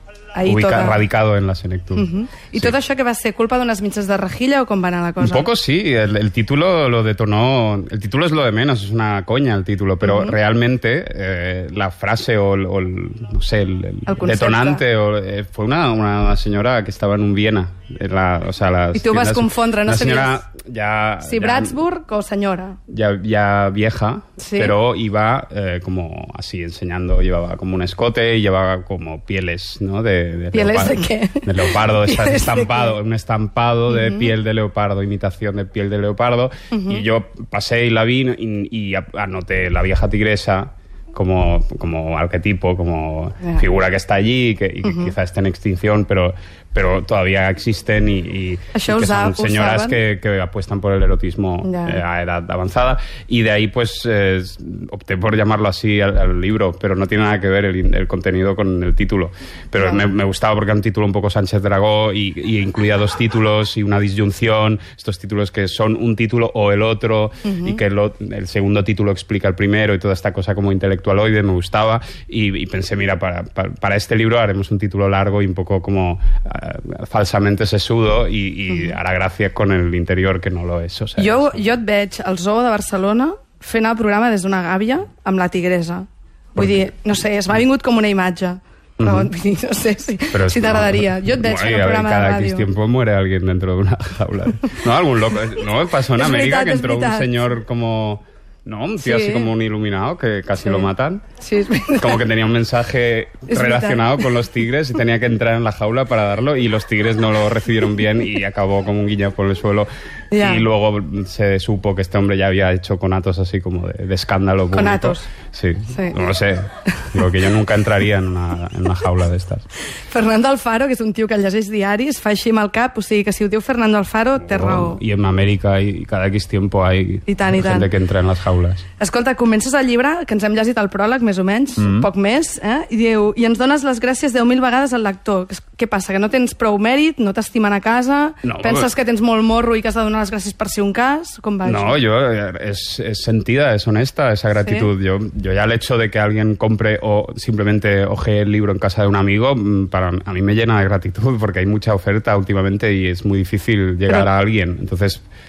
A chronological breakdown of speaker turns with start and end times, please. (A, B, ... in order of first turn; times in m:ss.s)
0:00.3-0:01.0 A
0:00.4-0:02.7 B
0:01.9-0:05.5 A
0:05.2-0:21.8 B
0:10.0-0:10.4 A
0:14.1-0:14.8 A
0:18.9-0:20.4 A
0:21.2-0:22.8 A
0:22.9-1:21.6 B
0:24.4-0:24.8 A
0:30.5-0:33.0 A
0:33.9-0:34.3 A
0:36.7-0:37.0 A
0:44.8-0:45.1 A
0:48.7-0:50.0 A
0:51.6-0:52.0 A
0:59.8-1:00.1 A
1:07.4-1:07.8 A
1:18.7-1:19.0 A
1:21.2-1:32.7 A
1:26.6-1:26.8 B
1:29.0-1:29.3 B
1:30.3-1:41.2 B
1:36.1-1:37.4 A
1:39.0-1:39.5 A
1:40.6-1:42.2 A
1:42.0-1:59.6 B
1:43.5-1:44.4 A
1:50.3-1:50.7 A
1:54.7-1:55.3 A
1:55.9-1:56.2 A
2:00.1-2:05.0 A
2:04.4-2:08.8 B
2:07.3-2:07.9 A
2:09.0-2:22.0 A
2:11.8-2:12.1 B
2:18.4-2:18.9 B
2:21.6-2:35.2 B
2:24.6-2:24.9 A